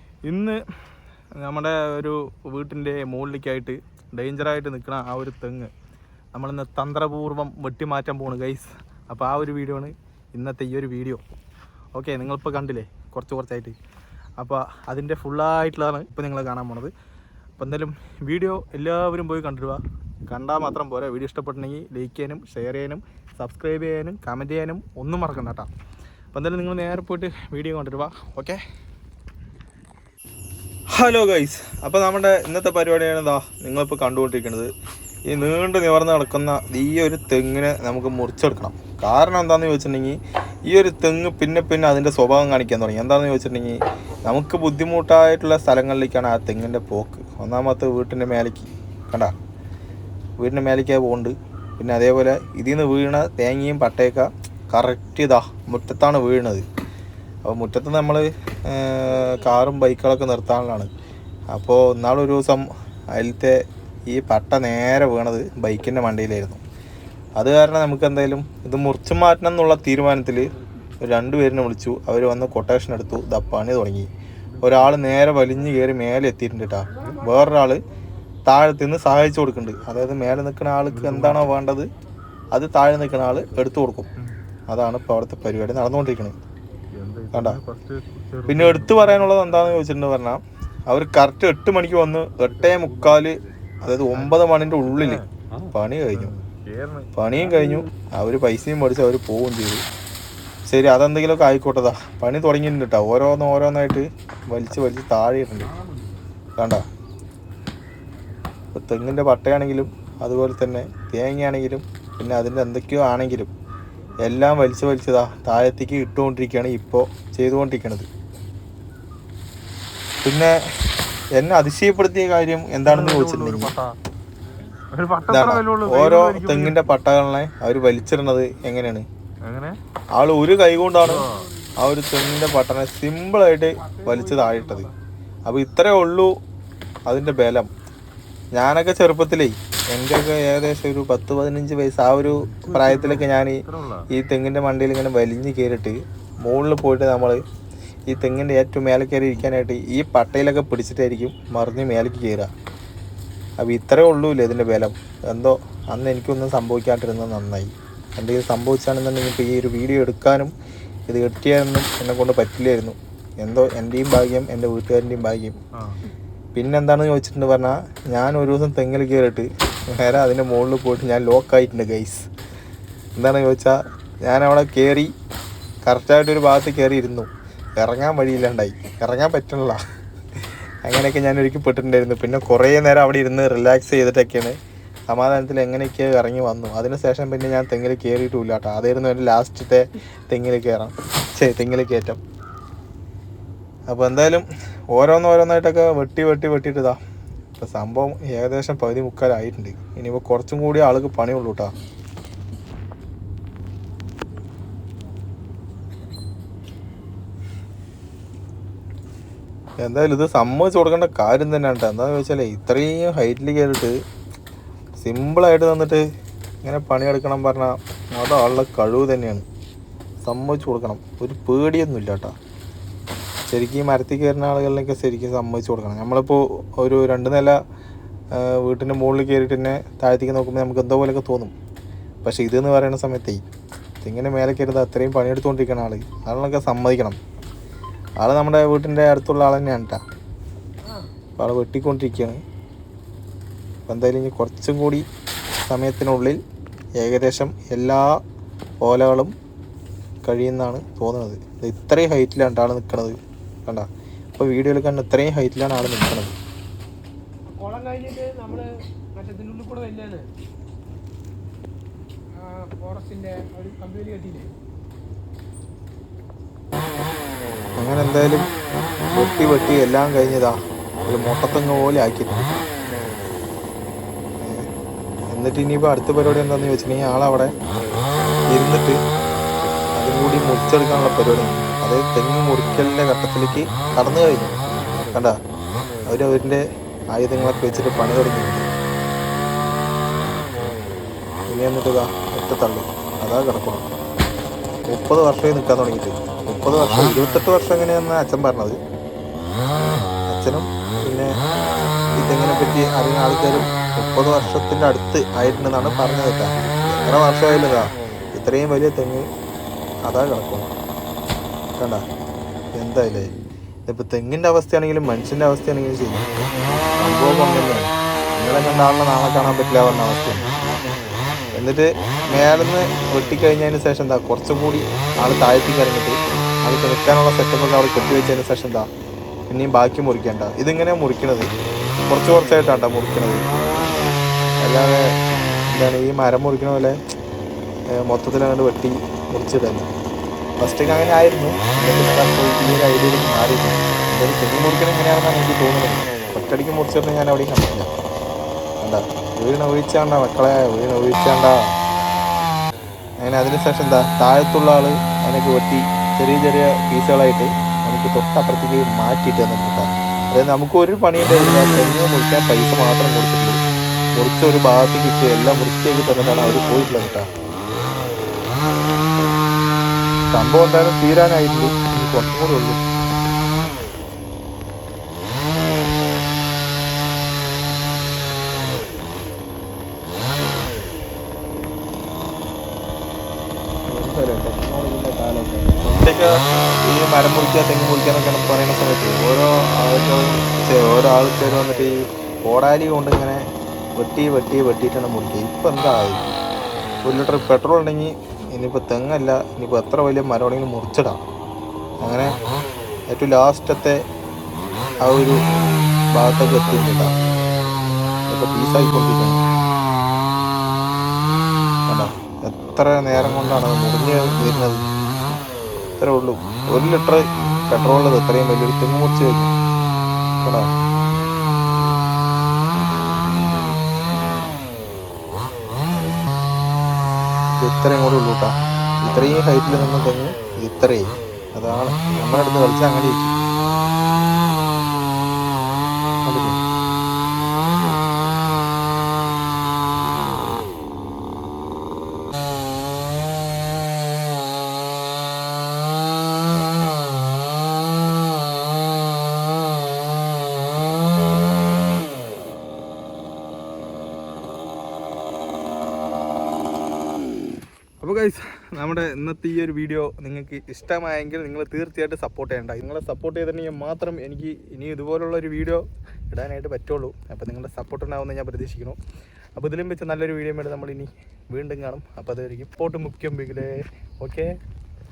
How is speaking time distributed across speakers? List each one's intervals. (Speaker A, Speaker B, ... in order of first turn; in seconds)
Speaker A: 0.3-0.6, 1.4-5.7, 6.3-11.2, 11.9-13.8, 14.4-16.9, 17.6-25.7, 26.3-28.6, 30.9-34.7, 35.3-49.3, 50.4-56.6, 57.4-60.9, 61.5-66.6, 67.4-70.5, 71.0-74.1, 74.6-77.8, 78.5-81.9, 82.5-84.1, 84.7-86.3, 87.3-87.6, 88.5-96.3, 97.2-99.8, 100.7-105.7, 106.6-106.8, 108.7-113.5, 114.2-118.1, 120.2-120.5, 121.4-123.7, 125.3-129.1, 130.2-131.2, 131.8-134.9, 135.5-136.3, 137.1-137.7, 138.6-147.4, 148.1-152.5, 153.6-160.5, 161.1-165.6, 166.6-172.3, 173.2-175.1, 175.8-179.8, 180.8-184.6, 185.1-192.2, 193.9-197.0, 197.6-201.7, 209.8-213.9, 215.0-216.0, 216.6-219.4, 220.2-222.3, 223.5-227.6, 228.3-231.5, 232.2-233.4, 234.0-237.2, 238.2-240.0, 241.4-242.4, 243.9-245.1, 245.7-246.4, 247.0-248.1, 248.8-249.3, 250.2-256.3, 267.8-268.5, 269.1-270.6, 271.1-272.6, 274.4-274.7, 275.3-277.5, 278.5-279.0, 280.0-284.6, 285.1-285.4, 286.1-288.7, 291.5-293.9, 294.9-298.8, 299.8-301.3, 302.2-309.2, 310.1-310.7, 311.8-312.1, 312.8-313.4, 313.9-316.3, 317.0-320.5, 321.5-328.9, 329.5-331.5, 332.1-333.4, 334.6-335.1, 335.7-337.0, 338.0-339.9, 340.6-347.9, 348.8-351.6, 353.2-363.6, 364.2-367.3, 370.3-372.8, 383.9-393.4, 394.0-396.2, 397.1-401.2, 402.0-402.4, 403.1-404.0, 405.0-405.4, 406.1-407.1, 408.3-409.4, 411.9-414.8, 416.0-419.5, 420.4-420.7, 427.6-433.3, 436.2-436.6, 458.0-469.0, 469.6-474.5
Speaker B: 80.9-81.5, 86.9-89.8, 92.6-93.3, 94.9-97.9, 122.9-124.0, 124.9-126.8, 129.4-129.7, 131.0-131.5, 142.3-144.1
Speaker C: 133.8-134.9, 257.5-260.3, 262.3-264.5